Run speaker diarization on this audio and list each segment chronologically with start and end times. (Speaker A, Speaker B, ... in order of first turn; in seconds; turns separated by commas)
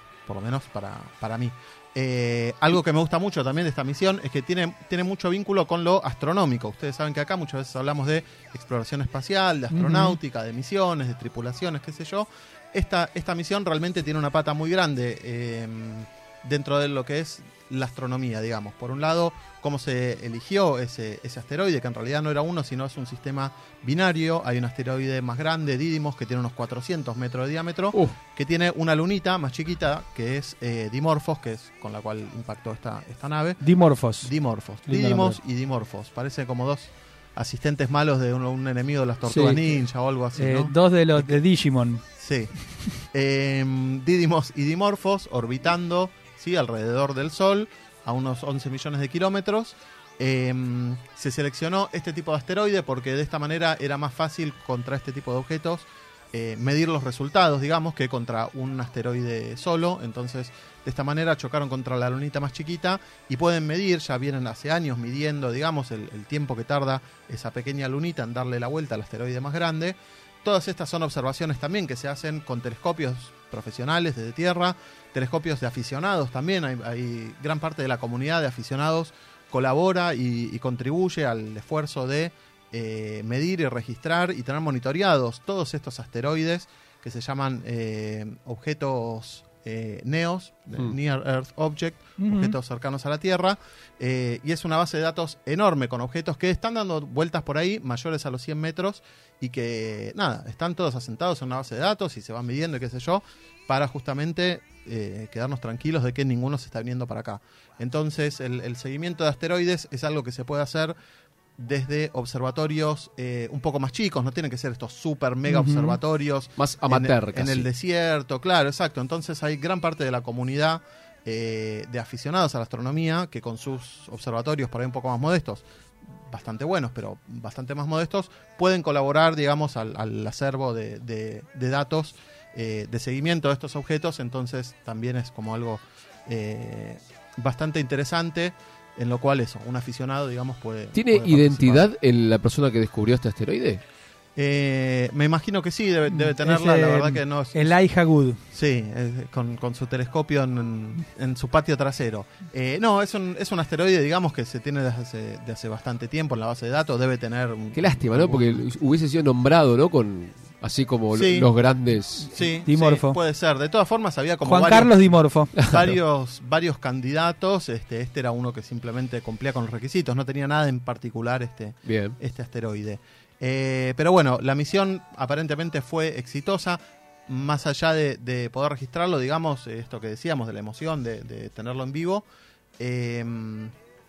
Speaker A: 0.3-33.6, Speaker B: 9.7-10.2, Speaker B: 33.6-34.3, Speaker A: 34.2-41.4, Speaker B: 34.8-35.4, Speaker B: 39.3-39.8, Speaker B: 40.4-42.0, Speaker A: 42.2-42.5, Speaker A: 43.1-111.0, Speaker B: 92.2-92.5, Speaker A: 111.6-125.6, Speaker B: 115.5-116.0, Speaker C: 116.6-117.7, Speaker A: 126.3-141.9, Speaker C: 140.9-143.8, Speaker A: 144.4-147.8, Speaker B: 146.1-148.4, Speaker A: 148.5-158.6, Speaker C: 157.8-162.4, Speaker A: 161.1-161.5, Speaker A: 162.3-165.0, Speaker B: 162.7-163.2, Speaker B: 164.4-165.5, Speaker C: 165.6-165.8, Speaker A: 165.7-182.2, Speaker C: 171.9-172.2, Speaker A: 182.8-183.7